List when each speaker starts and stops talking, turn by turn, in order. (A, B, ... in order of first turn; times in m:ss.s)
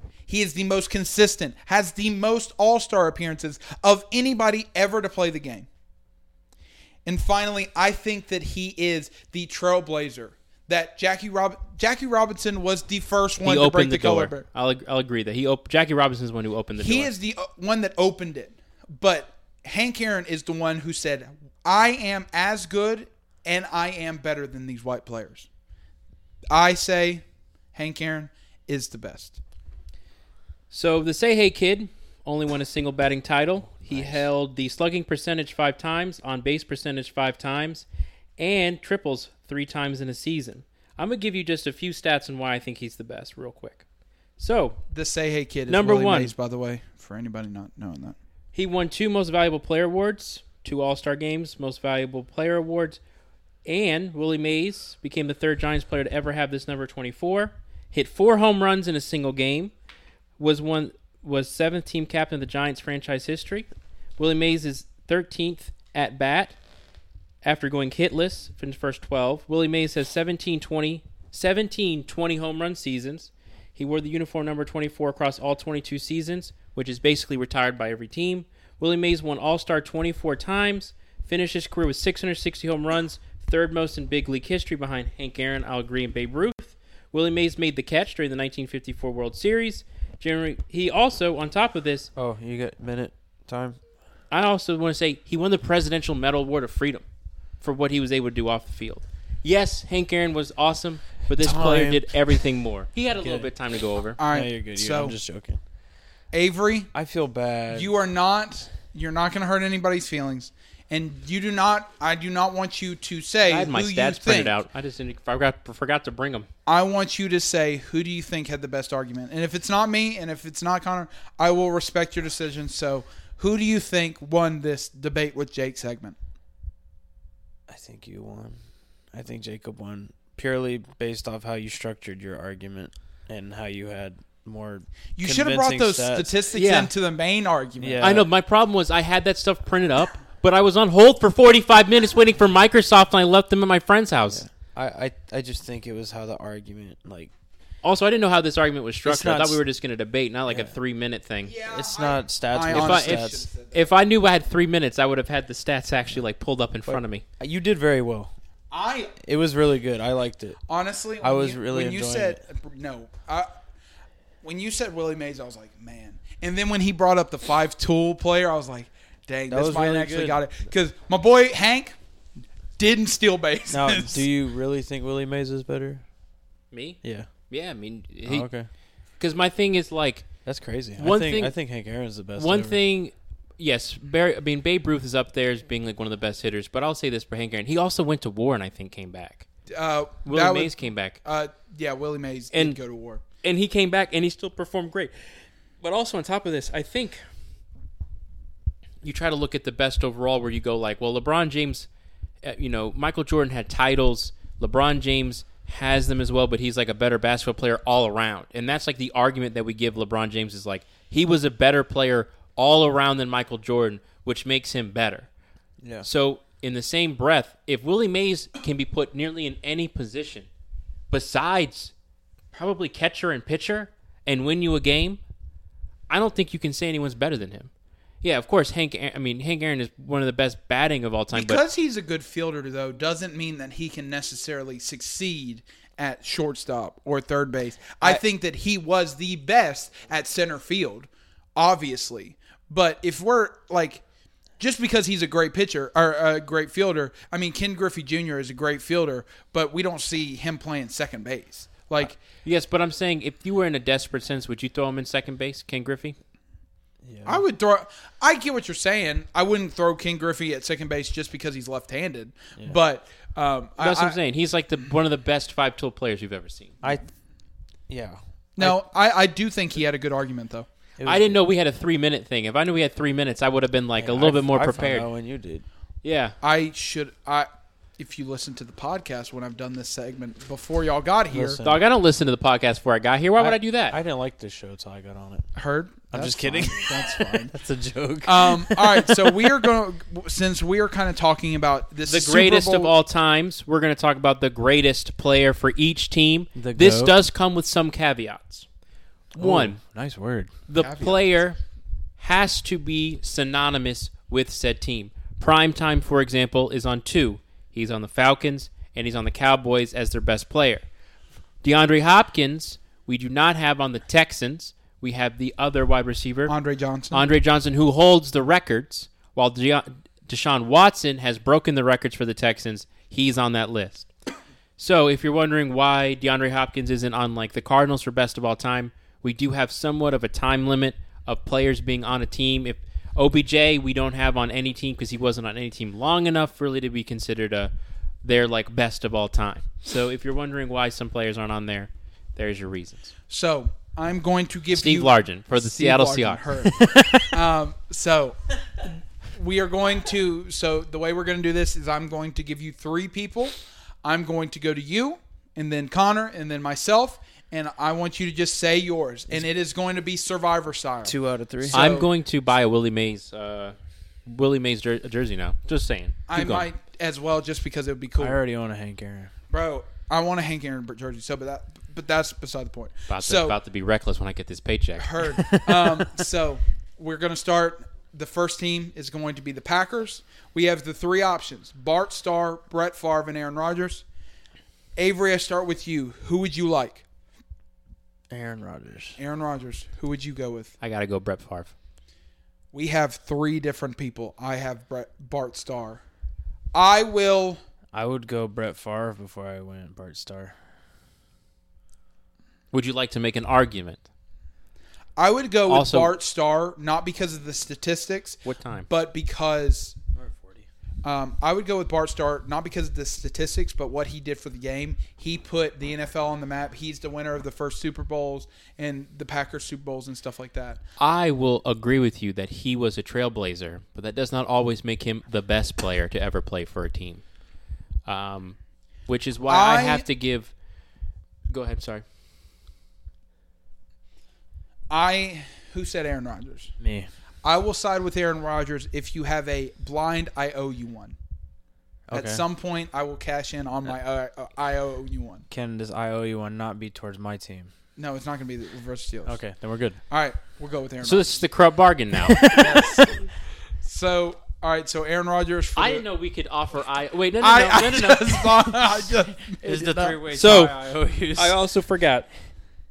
0:00.3-0:05.7 A
0:07.0-0:14.4 A
0:13.4-0:17.1 B
0:16.8-0:25.5 A
0:26.5-0:29.4 A
0:30.7-0:37.8 B
0:33.9-0:34.2 C
0:38.4-0:43.8 B
0:44.4-0:44.8 B
0:44.9-0:48.2 A
0:45.7-0:46.3 B
0:48.5-0:53.0 B
0:53.6-0:59.7 B
1:00.4-1:06.6 B
1:07.4-1:32.1 B
1:32.2-1:33.8 C
1:34.3-1:37.0 B
1:37.6-1:44.2 B
1:41.4-1:42.4 C
1:43.2-1:43.5 C
1:44.2-1:45.2 A
1:44.3-1:45.6 C
1:46.3-1:46.9 A
1:46.9-1:47.9 C
1:47.7-1:54.6 A
1:53.4-1:56.5 B
1:56.6-2:06.2 A
2:07.7-2:08.6 C
2:09.1-2:16.3 C
2:15.2-2:18.1 A
2:16.5-2:16.9 B
2:17.8-2:18.3 C
2:18.0-2:24.4 B
2:24.3-2:27.3 C
2:27.8-2:31.5 B
2:29.0-2:29.6 C
2:30.5-2:30.8 C
2:31.4-2:33.9 A
2:31.6-2:33.4 C
2:32.7-2:37.2 B
2:36.8-2:38.3 C
2:38.7-2:39.1 A
2:39.2-2:40.6 C
2:40.7-2:43.5 A
2:41.2-2:42.4 C
2:44.4-2:52.0 A
2:49.5-2:50.4 C
2:52.8-2:54.2 A
2:53.7-2:56.0 C
2:56.7-2:58.5 B
2:57.0-2:57.3 C
2:58.2-2:58.7 C
2:59.2-3:00.3 B
3:00.4-3:02.8 C
3:01.0-3:01.5 B
3:02.4-3:09.4 B
3:09.7-3:13.2 A
3:10.2-3:11.2 B
3:12.5-3:12.8 B
3:13.4-3:15.1 B
3:15.8-3:17.2 B
3:19.0-3:21.9 B
3:22.4-3:35.3 B
3:35.8-3:36.1 C
3:36.0-3:40.5 B
3:41.1-3:41.9 B
3:42.5-3:45.2 B
3:46.1-3:47.7 B
3:48.2-3:51.6 B
3:51.3-4:04.0 A
4:04.6-4:12.2 A
4:12.4-4:16.2 B
4:17.0-4:17.4 C
4:17.2-4:24.2 A
4:23.8-4:26.8 B
4:27.9-4:28.8 C
4:28.6-4:30.7 A
4:31.0-4:31.4 C
4:31.0-4:35.0 B
4:34.0-4:35.6 C
4:36.0-4:36.4 B
4:36.4-4:41.6 A
4:41.3-4:41.8 C
4:41.6-4:44.0 B
4:43.4-4:45.5 C
4:45.6-4:47.5 A
4:46.1-4:49.7 C
4:48.2-4:52.9 A
4:52.1-4:58.6 B
4:56.6-4:57.1 C
4:59.4-5:00.5 C
4:59.4-4:59.8 B
5:00.7-5:01.6 B
5:00.8-5:01.3 A
5:02.2-5:10.8 B
5:11.6-5:16.5 B
5:16.5-5:17.3 A
5:17.1-5:24.1 B
5:24.8-5:37.7 B
5:38.2-5:43.1 B
5:43.3-6:02.1 A
5:44.7-5:47.2 B
6:01.0-6:01.8 C
6:01.7-6:03.7 B
6:04.2-6:06.7 B
6:06.3-6:08.4 A
6:08.2-6:09.3 C
6:09.5-6:13.6 A
6:13.1-6:15.5 B
6:15.0-6:24.0 A
6:15.4-6:15.9 C
6:25.0-6:27.0 A
6:28.3-6:29.2 C
6:29.2-6:30.7 A
6:30.8-6:31.7 B
6:32.7-6:36.0 A
6:36.7-6:37.6 A
6:37.9-6:40.6 C
6:42.7-6:44.0 B
6:45.2-6:50.0 A
6:45.7-6:46.1 B
6:48.4-6:48.9 B
6:50.1-6:50.7 C
6:51.0-7:00.8 A
7:01.0-7:07.2 B
7:08.0-7:10.5 B
7:09.4-7:10.0 A
7:11.5-7:12.0 B
7:14.9-7:16.7 A
7:16.8-7:17.1 C
7:17.4-7:21.2 A
7:22.1-7:22.4 C
7:22.1-7:25.4 A
7:25.5-7:27.7 C
7:28.0-7:29.4 A
7:29.2-7:30.0 C
7:30.1-7:31.4 A
7:31.0-7:32.7 B
7:32.3-7:33.1 C
7:32.5-7:33.2 A
7:33.8-7:36.0 A
7:35.8-7:38.6 B
7:37.4-7:40.2 A
7:39.6-7:41.6 C
7:40.3-7:40.7 B
7:41.4-7:42.3 B